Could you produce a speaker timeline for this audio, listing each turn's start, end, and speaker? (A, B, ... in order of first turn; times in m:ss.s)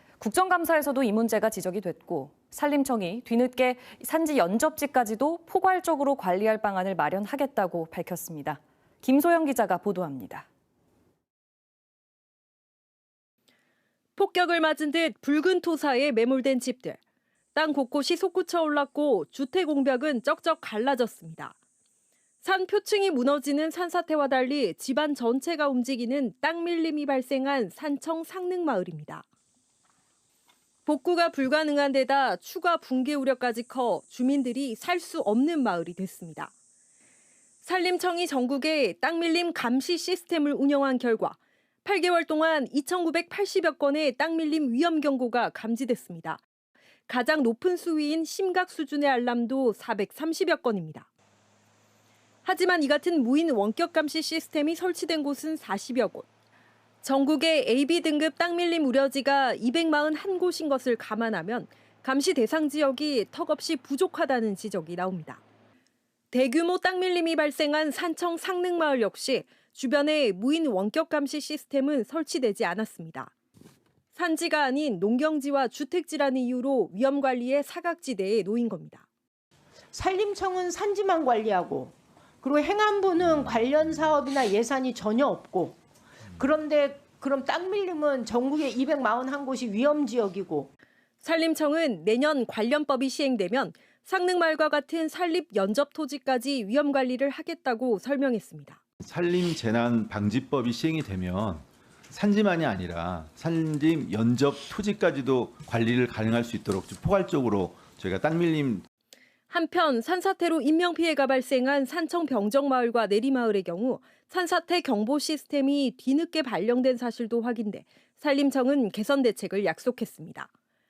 0:00.2-0:10.5 A
0:14.2-0:17.0 B
0:17.5-0:21.5 B
0:22.4-0:29.2 B
0:30.8-0:36.5 B
0:37.6-0:46.4 B
0:47.1-0:51.1 B
0:52.4-0:56.2 B
0:57.0-1:05.4 B
1:06.3-1:13.3 B
1:14.1-1:19.0 B
1:19.9-1:25.8 C
1:26.4-1:30.7 C
1:31.2-1:38.8 B
1:39.0-1:48.8 D
1:49.5-2:00.5 B